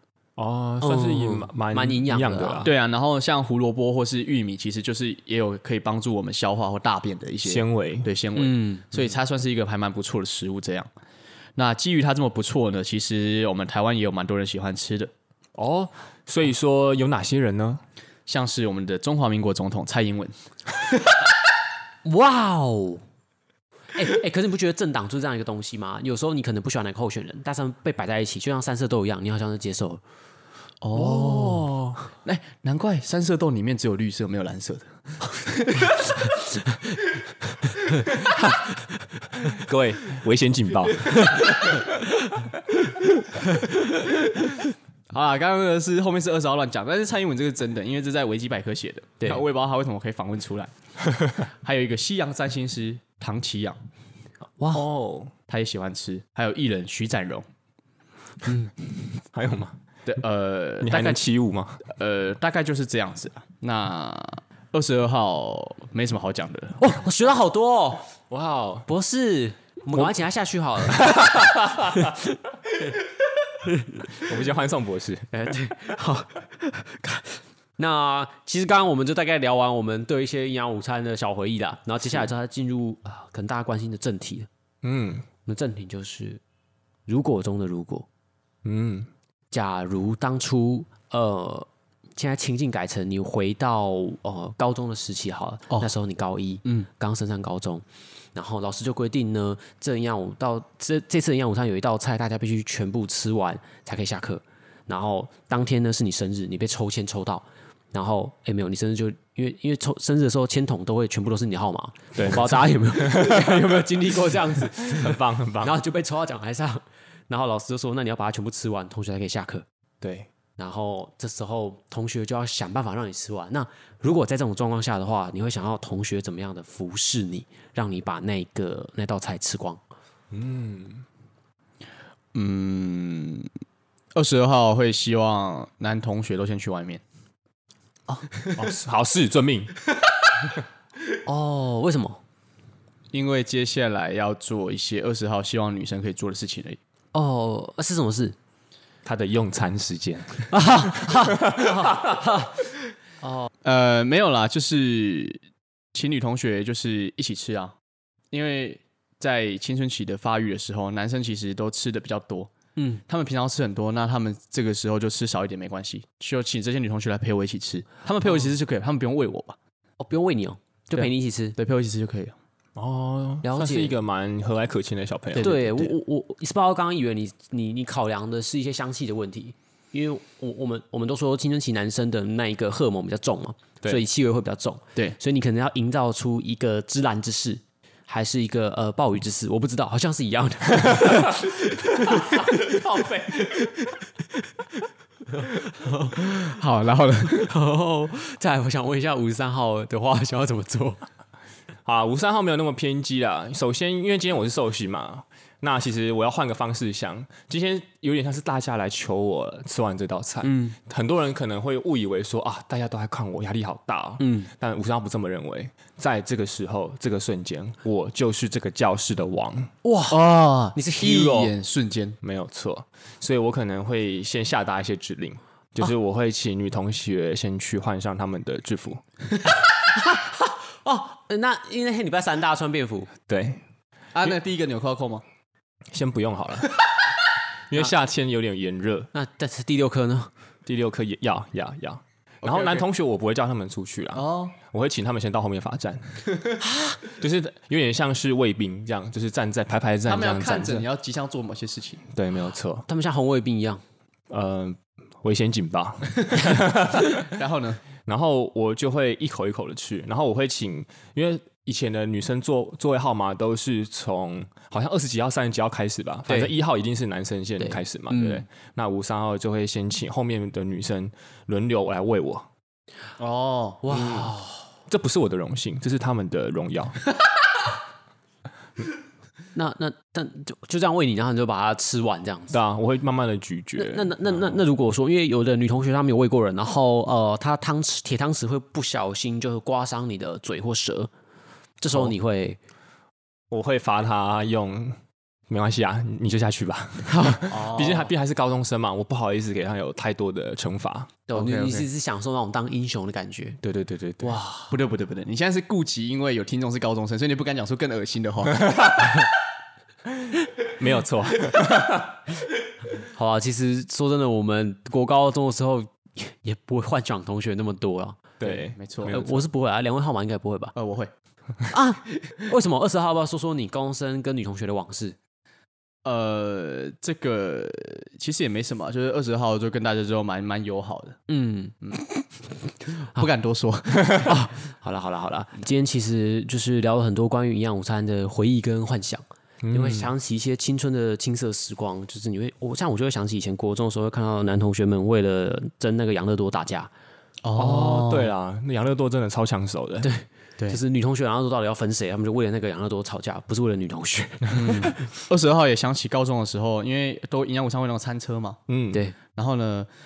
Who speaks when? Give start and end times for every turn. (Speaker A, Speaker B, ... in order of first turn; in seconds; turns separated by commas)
Speaker A: 0.4-2.7, Speaker B: 0.8-2.7, Speaker C: 2.6-10.9, Speaker A: 7.4-8.1, Speaker B: 8.3-8.9, Speaker C: 11.6-15.1, Speaker A: 15.6-17.8, Speaker C: 18.3-20.3, Speaker B: 22.0-23.0, Speaker B: 23.9-30.0, Speaker C: 30.8-36.3, Speaker A: 30.9-32.0, Speaker A: 39.4-41.8, Speaker B: 41.1-41.8, Speaker C: 45.1-50.7, Speaker A: 51.1-51.4, Speaker C: 51.5-53.8, Speaker B: 54.6-54.9, Speaker A: 54.7-55.3, Speaker C: 55.5-57.4, Speaker B: 58.5-58.7, Speaker A: 59.2-59.8, Speaker C: 60.0-61.2, Speaker A: 60.8-61.8, Speaker C: 61.9-66.8, Speaker B: 66.8-68.1, Speaker A: 68.3-68.9, Speaker B: 68.9-71.4, Speaker A: 70.8-72.2, Speaker B: 73.6-74.1, Speaker A: 74.1-75.3, Speaker B: 75.3-84.5, Speaker A: 84.8-85.2, Speaker B: 85.5-86.4, Speaker B: 87.1-88.1, Speaker A: 88.6-89.1, Speaker B: 89.5-119.7, Speaker A: 112.1-115.8, Speaker A: 120.0-120.3, Speaker B: 120.6-129.8, Speaker A: 130.3-131.0, Speaker C: 132.3-133.5, Speaker C: 134.1-137.0, Speaker A: 138.6-139.7, Speaker B: 141.2-142.2, Speaker C: 143.1-146.8, Speaker B: 147.1-148.3, Speaker A: 149.0-152.2, Speaker B: 150.5-152.5, Speaker B: 153.2-153.5, Speaker C: 153.6-155.4, Speaker C: 155.9-157.7, Speaker C: 158.3-162.5, Speaker B: 162.8-163.0, Speaker C: 163.1-169.6, Speaker B: 170.0-171.6, Speaker C: 170.9-172.3, Speaker A: 172.8-175.9, Speaker B: 173.4-173.9, Speaker C: 175.3-175.7, Speaker B: 175.4-192.8, Speaker A: 190.8-191.3, Speaker A: 192.4-193.5, Speaker B: 195.4-196.2, Speaker C: 196.1-197.5, Speaker B: 197.3-201.0, Speaker A: 201.8-219.7, Speaker B: 210.4-210.8, Speaker B: 214.2-214.5, Speaker B: 219.8-220.2, Speaker C: 220.1-222.2, Speaker B: 220.7-221.4, Speaker A: 221.1-221.5, Speaker A: 222.2-229.0, Speaker B: 229.6-233.1, Speaker A: 233.3-233.6, Speaker C: 234.1-235.2, Speaker A: 235.9-236.8, Speaker A: 237.7-239.1, Speaker B: 239.1-240.3, Speaker A: 240.7-246.2, Speaker C: 242.4-242.8, Speaker C: 244.1-244.6, Speaker B: 246.6-247.0, Speaker A: 247.1-250.8, Speaker C: 250.1-252.1, Speaker A: 252.1-252.9, Speaker B: 252.9-253.8, Speaker A: 254.3-257.3, Speaker C: 257.1-257.8, Speaker A: 258.0-272.5, Speaker B: 267.6-268.4, Speaker C: 273.2-273.8, Speaker B: 273.8-274.6, Speaker A: 273.9-274.3, Speaker A: 274.9-277.0, Speaker B: 279.5-282.6, Speaker A: 282.5-284.6, Speaker B: 283.8-291.1, Speaker B: 291.8-292.6, Speaker A: 293.5-295.0, Speaker A: 295.5-301.1, Speaker B: 297.1-297.5, Speaker C: 297.5-298.1, Speaker B: 301.3-303.6, Speaker C: 301.3-301.9, Speaker A: 303.6-304.4, Speaker B: 304.2-304.7, Speaker C: 304.7-309.1, Speaker A: 308.7-309.1, Speaker A: 310.6-312.2, Speaker B: 313.1-318.2, Speaker A: 318.4-319.5, Speaker C: 318.4-319.1, Speaker B: 319.0-320.7, Speaker C: 320.7-321.1, Speaker B: 321.7-325.1, Speaker C: 326.0-331.2, Speaker B: 331.3-331.7, Speaker C: 331.8-332.2, Speaker C: 332.9-334.3, Speaker B: 334.1-346.9, Speaker A: 339.6-340.1, Speaker C: 347.4-348.3, Speaker A: 347.6-350.1, Speaker B: 350.0-354.9, Speaker C: 354.5-358.6, Speaker A: 358.7-359.0, Speaker C: 359.3-359.9